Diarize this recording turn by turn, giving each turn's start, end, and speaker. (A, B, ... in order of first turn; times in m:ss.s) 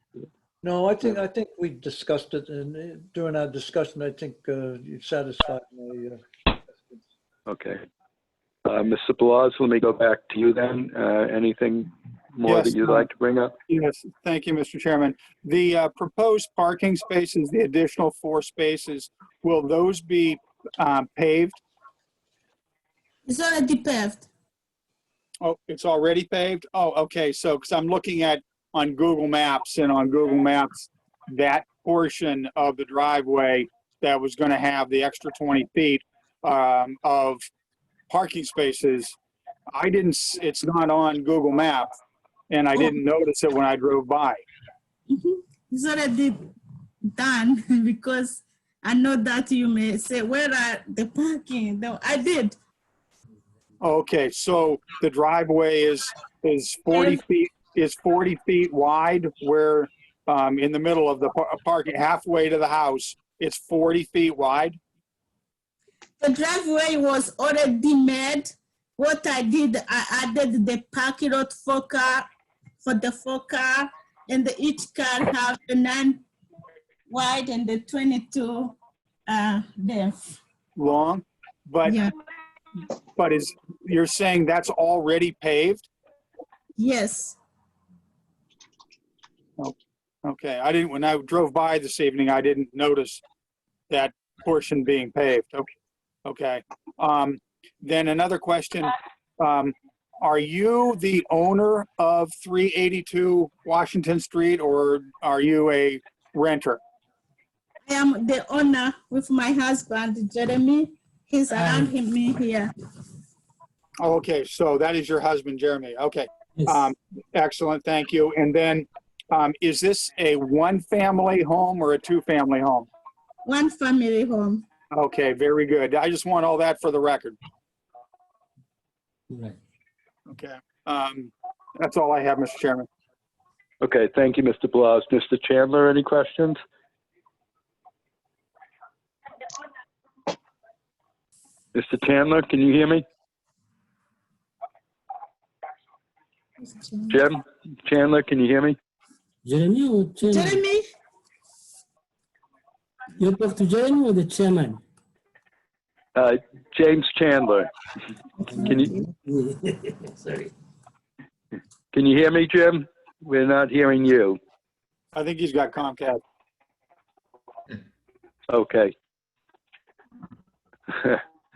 0:00.6-0:06.2 A
0:07.5-0:07.8 B
0:08.6-0:13.5 B
0:12.4-0:13.1 C
0:13.7-0:21.6 C
0:23.3-0:24.3 D
0:25.4-0:37.4 C
0:38.1-0:39.2 C
0:39.7-0:41.9 C
0:42.5-0:44.4 C
0:45.1-0:46.5 D
0:47.1-0:52.6 D
0:53.8-1:04.8 C
0:56.9-0:57.2 D
1:06.2-1:12.3 D
1:12.8-1:16.2 D
1:17.1-1:18.8 D
1:19.3-1:20.4 D
1:20.8-1:22.0 C
1:21.8-1:22.1 D
1:23.2-1:25.9 C
1:26.8-1:27.4 D
1:29.6-1:33.2 C
1:33.9-1:35.7 C
1:36.2-1:46.8 C
1:47.9-1:52.7 D
1:51.6-1:51.9 E
1:54.0-2:02.9 C
2:03.4-2:04.6 D
2:04.9-2:07.4 C
2:09.3-2:09.6 E
2:10.3-2:12.9 C
2:13.8-2:16.6 B
2:21.7-2:23.0 B
2:26.6-2:27.2 D
2:27.1-2:28.8 B
2:29.4-2:30.6 E
2:30.3-2:30.8 D
2:33.2-2:34.8 E
2:36.2-2:37.7 B
2:38.5-2:39.0 D
2:38.6-2:38.9 B
2:39.3-2:40.5 E
2:41.9-2:44.4 B
2:45.2-2:46.2 C
2:48.5-2:48.9 B